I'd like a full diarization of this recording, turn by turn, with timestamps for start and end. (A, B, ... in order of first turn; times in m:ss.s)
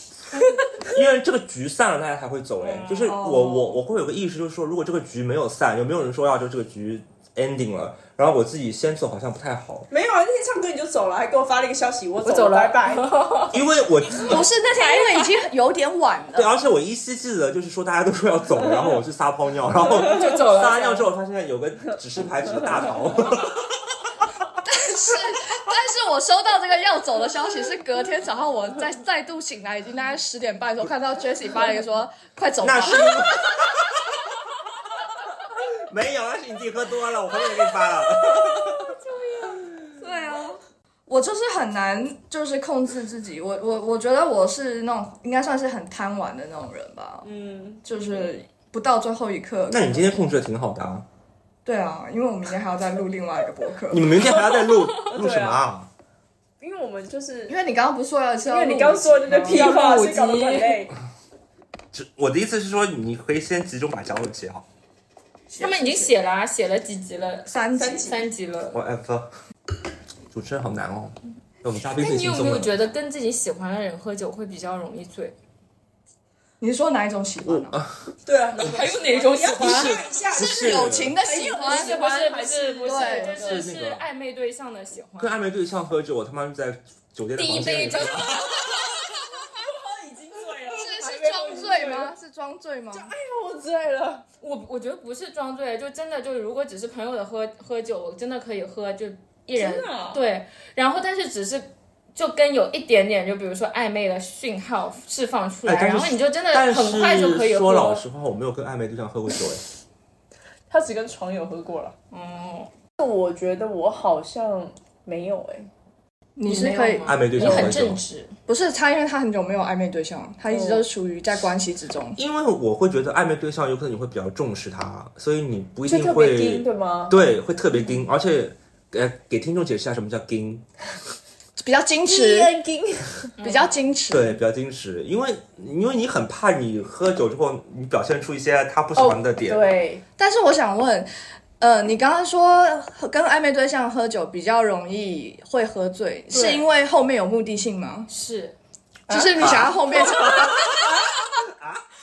0:00.3-0:00.6 A
0:00.9-0:09.9 B
0:02.6-0:03.2 A
0:03.0-0:03.8 C
0:09.9-0:13.4 D
0:12.2-0:13.6 A
0:13.5-0:14.4 B
0:14.2-0:16.5 C
0:14.8-0:15.3 A
0:16.4-0:23.9 B
0:20.0-0:21.1 A
0:24.6-0:33.3 C
0:32.6-0:34.2 B
0:35.6-0:39.0 B
0:39.1-0:39.6 A
0:40.0-0:47.3 C
0:47.2-0:47.8 D
0:47.8-0:50.1 C
0:49.7-0:51.1 B
0:51.6-0:54.1 C
0:53.9-0:55.9 B
0:54.4-0:55.0 A
0:55.1-0:55.6 D
0:56.6-0:57.6 D
0:57.5-0:59.8 C
0:58.5-1:01.0 D
0:59.4-1:00.8 A
1:01.9-1:04.6 B
1:05.5-1:06.1 C
1:05.6-1:08.8 A
1:07.4-1:08.1 C
1:07.8-1:08.2 D
1:08.7-1:09.3 B
1:10.3-1:12.7 B
1:12.0-1:15.4 A
1:16.6-1:17.8 C
1:17.4-1:18.2 B
1:18.3-1:23.6 D
1:18.6-1:20.0 A
1:19.6-1:21.2 B
1:20.4-1:22.0 C
1:21.6-1:25.3 A
1:22.9-1:23.4 C
1:23.4-1:24.0 B
1:25.2-1:28.8 B
1:27.4-1:29.0 A
1:29.6-1:32.1 D
1:30.7-1:33.1 C
1:32.9-1:34.2 D
1:34.4-1:48.0 A
1:39.6-1:40.2 D
1:45.6-1:49.6 B
1:50.7-1:52.0 D
1:52.1-1:52.7 A
1:53.0-1:55.7 D
1:56.4-1:57.2 C
1:56.5-1:58.3 A
1:57.0-1:58.0 B
1:57.4-1:57.8 D
1:58.5-2:02.2 C
2:00.5-2:00.9 D
2:02.2-2:10.6 B
2:05.9-2:07.2 D
2:11.6-2:12.5 C
2:12.1-2:13.4 D
2:13.4-2:13.7 A
2:13.4-2:14.4 C
2:14.1-2:19.7 B
2:19.0-2:20.0 D
2:20.2-2:21.1 C
2:21.6-2:28.1 C
2:26.3-2:26.7 D
2:28.1-2:28.6 A
2:29.1-2:29.6 D
2:29.1-2:30.7 C
2:29.4-2:31.8 B